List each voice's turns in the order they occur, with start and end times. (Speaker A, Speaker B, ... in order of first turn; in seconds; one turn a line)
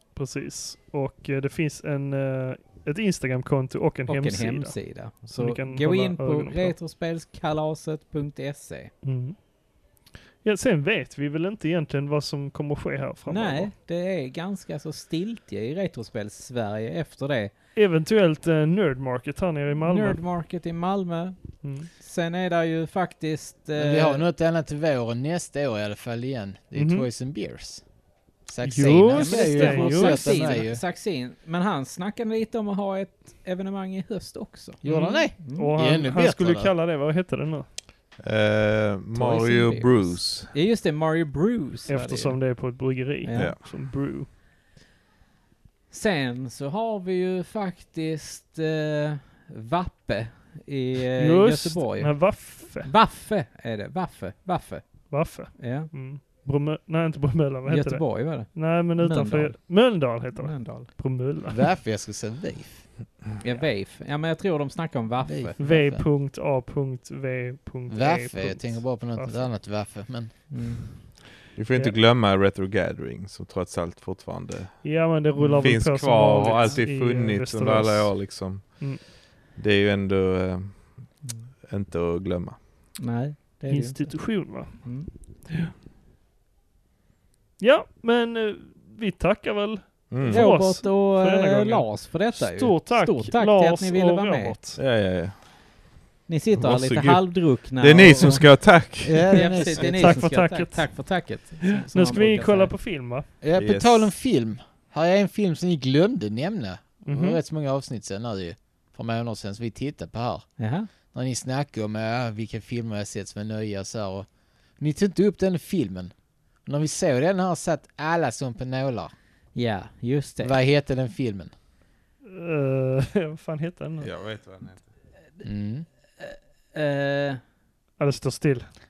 Speaker A: 0.1-6.8
Speaker B: 4.1-8.9
Speaker A: 9.0-9.4
Speaker A: 10.4-13.7
Speaker B: 13.3-17.5
Speaker A: 17.8-20.2
Speaker B: 19.8-24.3
Speaker A: 21.6-21.9
Speaker C: 23.8-27.9
Speaker A: 26.8-27.1
Speaker C: 28.4-30.8
Speaker A: 28.6-30.6
Speaker B: 28.8-34.8
Speaker C: 34.8-36.7
Speaker A: 34.9-37.7
Speaker B: 35.4-35.7
Speaker D: 38.2-40.5
Speaker B: 39.1-42.4
Speaker A: 41.9-44.3
Speaker B: 43.2-43.5
Speaker B: 45.9-55.9
Speaker A: 51.2-52.9
Speaker A: 55.1-61.6
Speaker B: 57.7-60.9
Speaker C: 61.5-62.9
Speaker B: 63.4-65.5
Speaker C: 65.2-66.0
Speaker A: 65.6-69.5
Speaker C: 67.9-70.3
Speaker B: 70.5-70.9
Speaker D: 71.5-74.9
Speaker A: 74.8-79.0
Speaker B: 75.4-75.8
Speaker D: 75.6-82.6
Speaker B: 83.0-85.1
Speaker A: 83.7-84.8
Speaker A: 87.6-94.8
Speaker D: 90.1-90.5
Speaker B: 90.3-94.6
Speaker D: 94.8-95.6
Speaker B: 96.3-98.7
Speaker D: 96.6-99.6
Speaker C: 99.0-100.3
Speaker B: 99.3-102.7
Speaker A: 99.5-101.1
Speaker A: 101.9-103.3
Speaker C: 103.4-110.5
Speaker D: 103.5-104.1
Speaker A: 107.0-107.4
Speaker B: 110.6-110.9
Speaker C: 111.0-114.3
Speaker C: 114.8-116.1
Speaker C: 116.7-119.1
Speaker B: 119.5-120.6
Speaker C: 120.4-121.5
Speaker A: 122.2-124.1
Speaker D: 124.0-124.8
Speaker C: 125.4-125.9
Speaker B: 126.2-127.4
Speaker A: 128.0-128.7